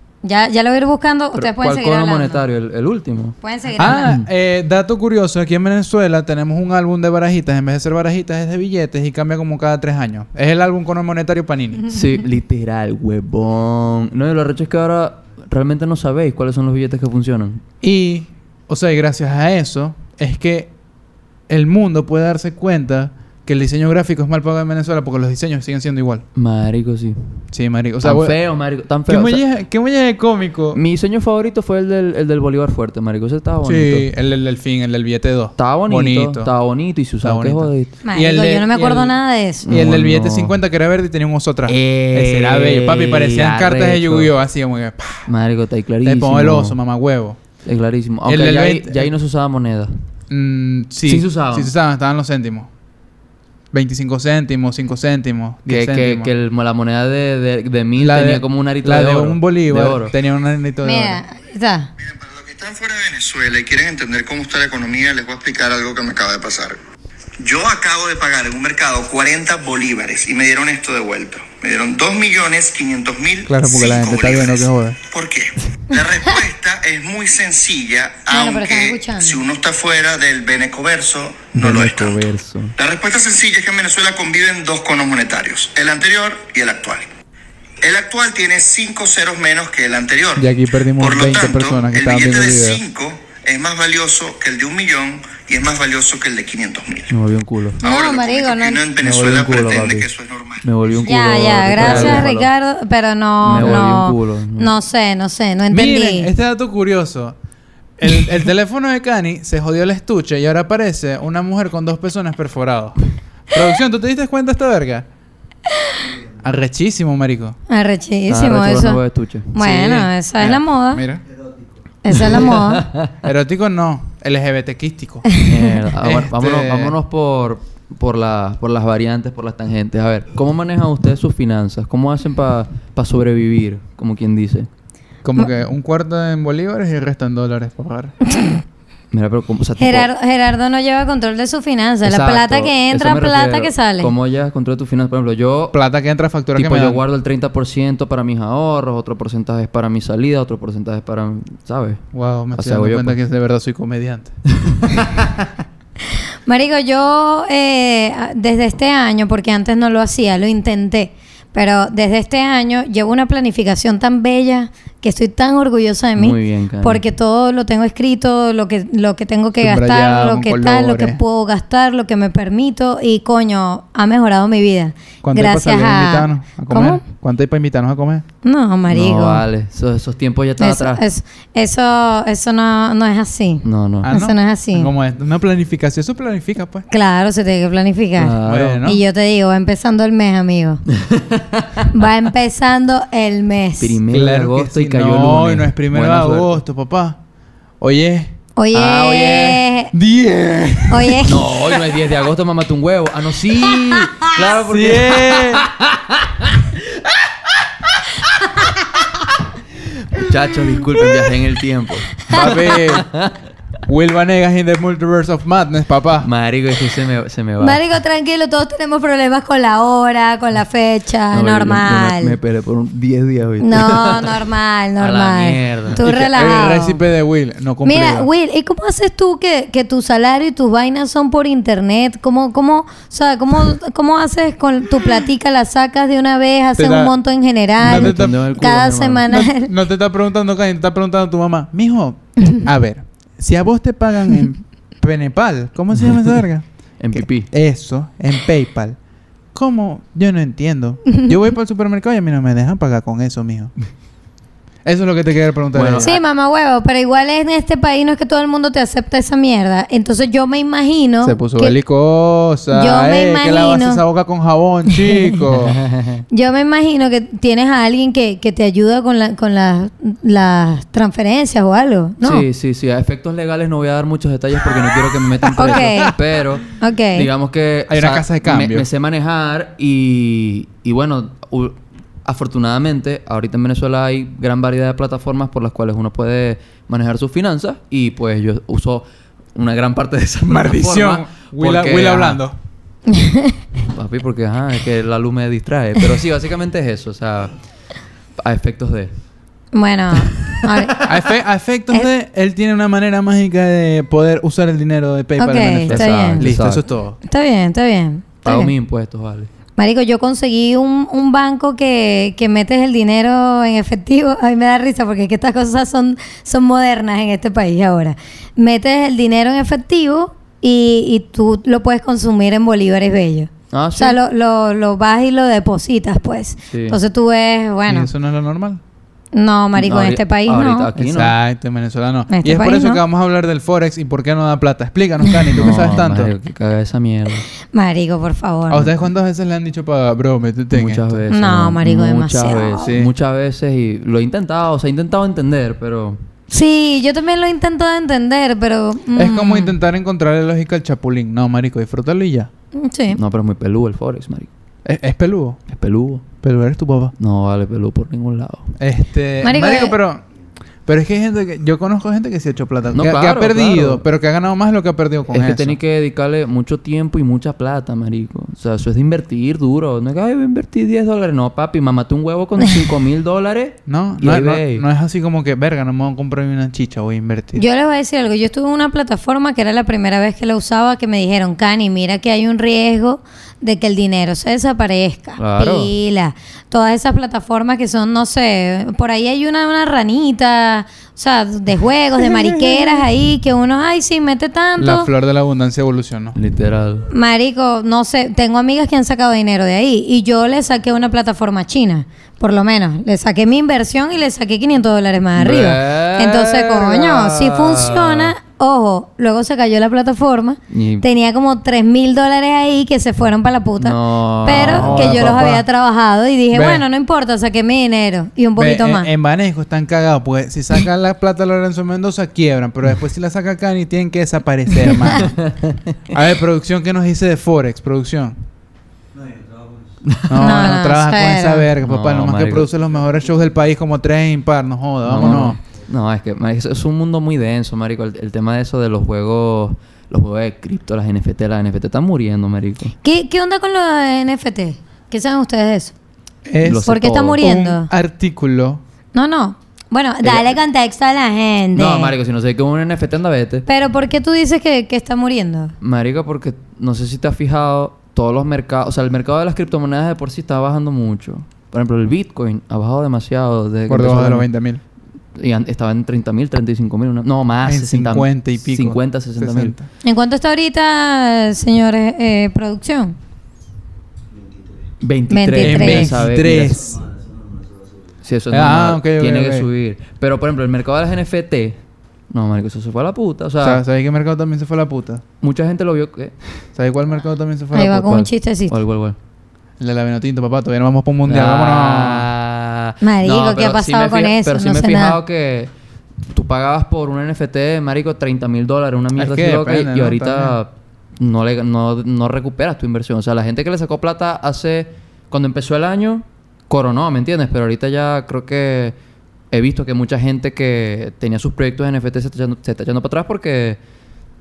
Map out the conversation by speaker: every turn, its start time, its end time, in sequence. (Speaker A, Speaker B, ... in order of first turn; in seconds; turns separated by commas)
Speaker A: 0.2-2.4, Speaker B: 1.3-4.3, Speaker A: 3.4-4.1, Speaker C: 3.8-11.8, Speaker B: 11.9-17.6, Speaker C: 17.8-20.7, Speaker C: 21.5-26.2, Speaker B: 26.4-27.4, Speaker C: 27.5-28.4, Speaker B: 28.0-29.4, Speaker C: 29.1-30.8, Speaker B: 30.7-34.1, Speaker C: 33.6-36.5, Speaker B: 35.6-37.9, Speaker C: 37.2-39.2, Speaker A: 38.0-39.7, Speaker B: 39.6-40.5, Speaker C: 39.7-45.3, Speaker B: 41.7-44.3, Speaker B: 45.3-46.8, Speaker C: 46.0-47.4, Speaker B: 47.6-49.9, Speaker C: 48.3-49.1, Speaker C: 50.3-52.7, Speaker B: 51.1-51.7, Speaker C: 53.7-56.3, Speaker B: 55.7-60.1, Speaker C: 58.0-61.2, Speaker A: 60.8-61.9, Speaker D: 62.0-66.8, Speaker D: 67.4-87.1, Speaker C: 73.5-75.0, Speaker A: 78.3-79.4, Speaker B: 81.5-82.8, Speaker D: 87.8-97.1, Speaker C: 90.4-92.8, Speaker B: 97.1-97.8, Speaker D: 97.8-100.7, Speaker A: 97.8-98.8, Speaker B: 99.0-100.1, Speaker B: 100.6-102.5, Speaker A: 101.0-106.3, Speaker C: 101.8-102.3, Speaker B: 103.4-104.7, Speaker C: 103.5-103.9, Speaker C: 105.7-107.4, Speaker C: 108.0-113.0, Speaker C: 113.5-115.1, Speaker C: 116.4-117.6, Speaker A: 117.7-119.0, Speaker B: 118.3-120.1, Speaker A: 119.5-121.0, Speaker C: 119.7-121.2, Speaker A: 122.0-122.8, Speaker B: 122.1-123.1, Speaker C: 123.2-125.3, Speaker B: 125.4-134.7, Speaker C: 126.0-127.0, Speaker C: 135.2-138.1, Speaker B: 139.1-140.1, Speaker A: 139.8-144.1, Speaker B: 142.0-145.8, Speaker C: 145.7-147.0, Speaker B: 146.6-153.2, Speaker C: 152.1-154.3, Speaker B: 154.7-155.0, Speaker A: 156.5-177.0, Speaker B: 166.2-167.0, Speaker C: 169.6-171.2, Speaker C: 175.2-178.2, Speaker A: 178.4-179.4, Speaker B: 178.9-181.0, Speaker A: 180.6-184.9, Speaker B: 183.6-184.1, Speaker C: 184.0-186.9, Speaker A: 186.9-190.8, Speaker B: 188.2-188.9, Speaker C: 188.4-189.0, Speaker B: 191.0-191.9, Speaker A: 191.9-194.0, Speaker B: 193.8-196.6, Speaker C: 194.1-197.2, Speaker C: 197.8-198.3, Speaker A: 198.6-199.9, Speaker B: 198.7-199.6, Speaker C: 199.9-201.2, Speaker A: 200.9-201.5, Speaker B: 201.2-207.2, Speaker C: 204.6-205.7, Speaker B: 210.1-213.4, Speaker C: 212.3-213.1, Speaker C: 213.9-216.3, Speaker B: 216.2-217.8, Speaker A: 217.6-222.4, Speaker B: 221.3-224.4, Speaker A: 223.6-227.0, Speaker B: 225.0-226.1, Speaker C: 226.0-228.3, Speaker A: 227.8-239.7, Speaker C: 236.8-237.1, Speaker C: 237.8-238.4, Speaker B: 237.8-239.3, Speaker C: 239.3-249.0, Speaker B: 247.0-247.5, Speaker C: 249.5-253.7, Speaker A: 251.1-251.3, Speaker C: 254.8-256.1, Speaker B: 255.7-256.2, Speaker A: 256.0-261.8, Speaker C: 261.2-265.8, Speaker A: 262.7-264.0, Speaker B: 265.6-266.2, Speaker A: 266.3-272.4, Speaker B: 272.2-289.0, Speaker C: 275.4-276.2, Speaker A: 275.6-276.1, Speaker A: 276.8-277.3, Speaker C: 277.9-278.9, Speaker B: 289.6-292.4, Speaker C: 290.5-292.6, Speaker A: 293.1-293.6, Speaker B: 293.9-297.6, Speaker B: 298.4-299.1, Speaker A: 299.7-301.0, Speaker B: 300.2-300.9, Speaker C: 301.0-307.2, Speaker A: 305.4-306.4, Speaker B: 305.9-306.9, Speaker A: 307.2-308.7, Speaker B: 308.4-309.5, Speaker A: 309.8-328.1, Speaker B: 323.7-324.2, Speaker B: 326.7-327.0, Speaker C: 327.9-328.8, Speaker A: 329.3-330.9, Speaker B: 329.8-331.4, Speaker C: 331.0-336.3, Speaker A: 332.3-333.0, Speaker B: 335.6-337.5, Speaker A: 337.7-338.9, Speaker C: 338.7-341.2, Speaker B: 340.7-346.2, Speaker A: 341.3-342.9, Speaker C: 342.8-343.1, Speaker A: 346.5-349.7, Speaker C: 349.1-352.5, Speaker A: 352.8-353.2, Speaker B: 353.1-354.5, Speaker C: 354.9-355.6, Speaker B: 355.7-356.3, Speaker C: 356.4-357.1, Speaker B: 357.2-358.7, Speaker C: 358.8-360.2, Speaker A: 359.4-360.0, Speaker C: 360.9-365.8, Speaker B: 362.9-364.0, Speaker B: 365.3-374.9, Speaker C: 373.9-377.6, Speaker A: 377.6-395.1, Speaker B: 385.4-385.9, Speaker C: 394.8-396.4, Speaker B: 396.4-397.1, Speaker A: 397.1-419.1, Speaker B: 405.4-408.3, Speaker B: 410.7-411.1, Speaker B: 413.8-415.5, Speaker C: 414.5-415.6, Speaker C: 416.5-416.9, Speaker C: 418.6-425.3, Speaker B: 425.2-425.9, Speaker C: 426.1-428.4, Speaker B: 430.0-430.8, Speaker C: 430.3-435.6, Speaker A: 430.4-431.7, Speaker B: 431.8-432.7, Speaker B: 435.0-442.9, Speaker A: 443.0-445.9, Speaker C: 446.5-448.8, Speaker B: 446.6-447.4, Speaker A: 446.9-447.9, Speaker A: 449.1-452.1, Speaker B: 450.2-450.5, Speaker B: 451.8-453.7, Speaker A: 453.7-455.7, Speaker B: 455.8-464.5, Speaker C: 463.9-464.8, Speaker B: 465.4-469.8, Speaker C: 467.6-469.9, Speaker A: 470.0-473.2, Speaker B: 475.0-477.0, Speaker A: 475.3-476.2, Speaker C: 475.6-477.1, Speaker B: 478.2-481.8, Speaker C: 478.5-479.7, Speaker B: 482.3-483.8, Speaker C: 483.6-485.2, Speaker B: 485.4-486.4, Speaker C: 486.8-488.2, Speaker A: 487.8-488.8, Speaker B: 487.9-489.2, Speaker C: 489.8-492.3, Speaker B: 491.3-495.7, Speaker A: 493.0-495.2, Speaker B: 496.3-508.9, Speaker C: 499.2-500.6, Speaker B: 509.5-513.8